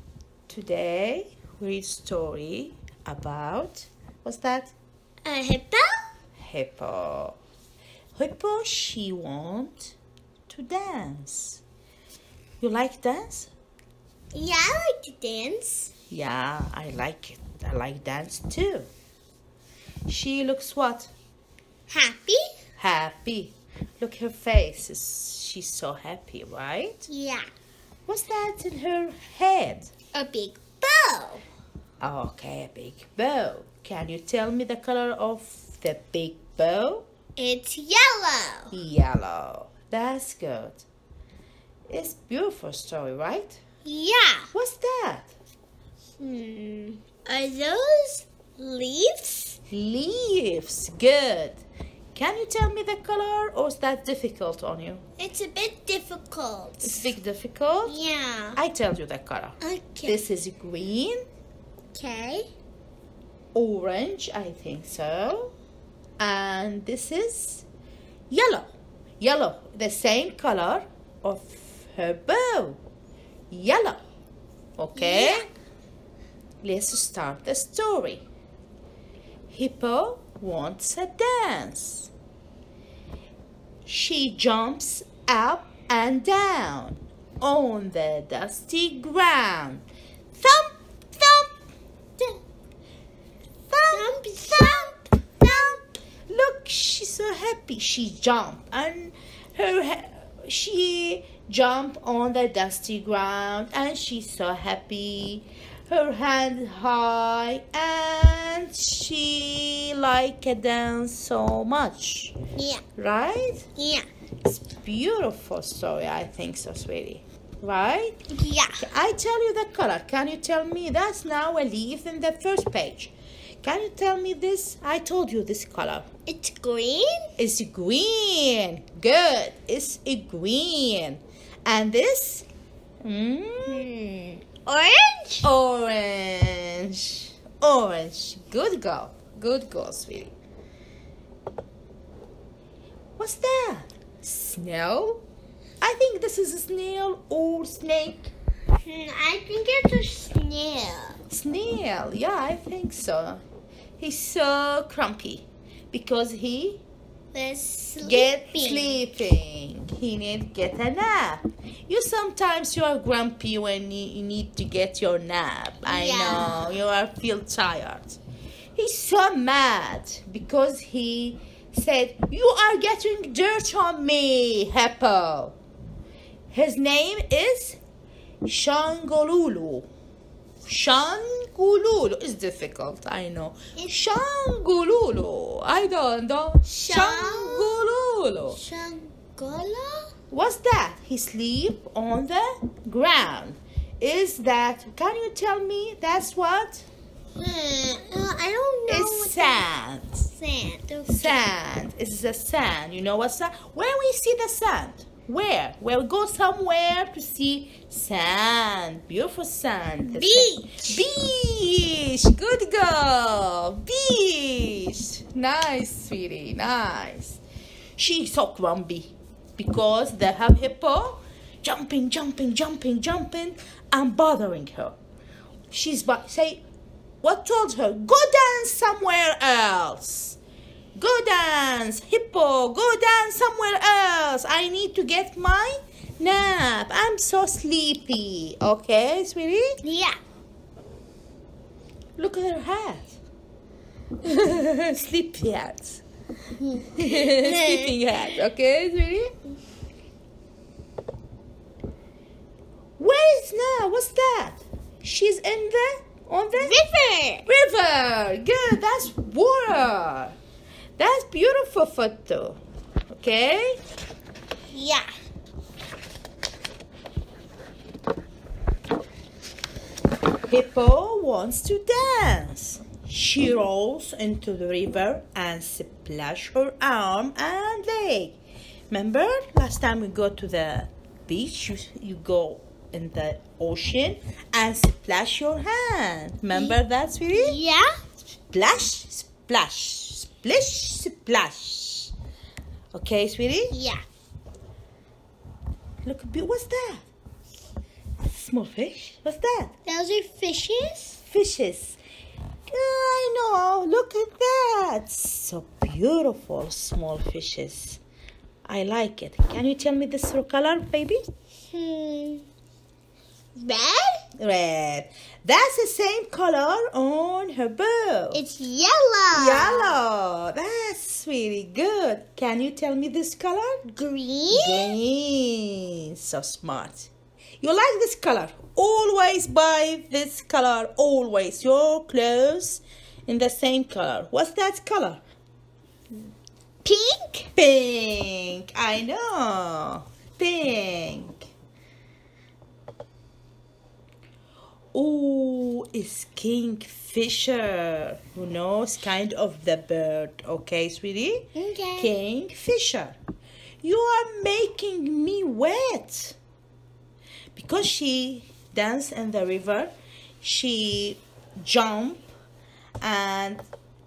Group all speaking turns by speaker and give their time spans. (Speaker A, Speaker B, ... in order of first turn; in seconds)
Speaker A: 0.5-4.7, 6.4-7.4, 8.2-9.9, 10.5-11.6, 12.6-13.5, 16.1-18.9, 20.1-21.1, 22.8-27.0, 28.1-29.9, 32.0-37.0, 38.7-40.8, 41.9-43.6, 44.5-45.3, 49.7-55.0, 56.8-57.9, 58.6-61.2, 63.5-65.5, 66.2-67.7, 68.3-72.8, 73.5-74.0, 74.8-75.5, 76.6-78.2, 79.5-82.1, 83.8-89.8, 90.4-91.5, 93.7-112.3, 113.0-113.7, 114.4-118.2, 118.8-126.0, 127.4-132.4, 133.0-133.8, 135.4-140.3, 143.2-145.2, 145.8-148.3, 151.3-153.4, 154.0-156.8, 158.0-168.2, 168.8-175.6, 176.5-177.8, 178.4-179.9, 180.6-188.6, 190.3-196.8, 198.9-200.3, 201.1-217.4, 218.0-224.9, 225.7-226.6, 227.2-230.4, 230.9-239.8, 242.2-243.2, 244.2-246.0, 246.9-249.3, 253.0-256.8, 257.4-260.4, 261.0-262.6, 263.1-263.8, 270.5-278.4, 278.9-287.6, 288.5-292.1, 292.9-293.7, 296.0-297.1, 298.2-299.7, 301.2-302.0, 302.7-308.0, 308.6-311.2, 314.4-318.4, 319.3-323.8, 324.5-327.1, 327.6-335.2, 337.5-341.4, 344.9-353.2, 353.8-356.4, 357.5-359.9, 360.4-362.2, 363.0-363.6
Speaker B: 5.2-5.9, 14.3-15.9, 21.9-22.4, 27.1-27.5, 30.1-31.4, 37.4-38.7, 43.8-44.5, 46.2-49.6, 55.2-57.1, 57.9-58.6, 59.6-60.2, 61.9-62.5, 74.9-75.5, 93.9-95.1, 112.5-112.8, 113.8-114.0, 118.3-118.8, 126.3-127.3, 133.7-135.4, 148.8-151.2, 157.3-158.9, 165.8-166.7, 186.6-187.8, 188.5-190.1, 197.4-199.7, 200.3-201.4, 210.1-211.0, 239.8-240.2, 246.6-248.0, 256.6-257.5, 264.7-265.1, 287.3-287.9, 293.7-294.0, 299.9-301.2, 311.7-312.4, 313.6-314.2, 318.3-319.9, 323.9-324.9, 336.8-337.5, 351.5-352.1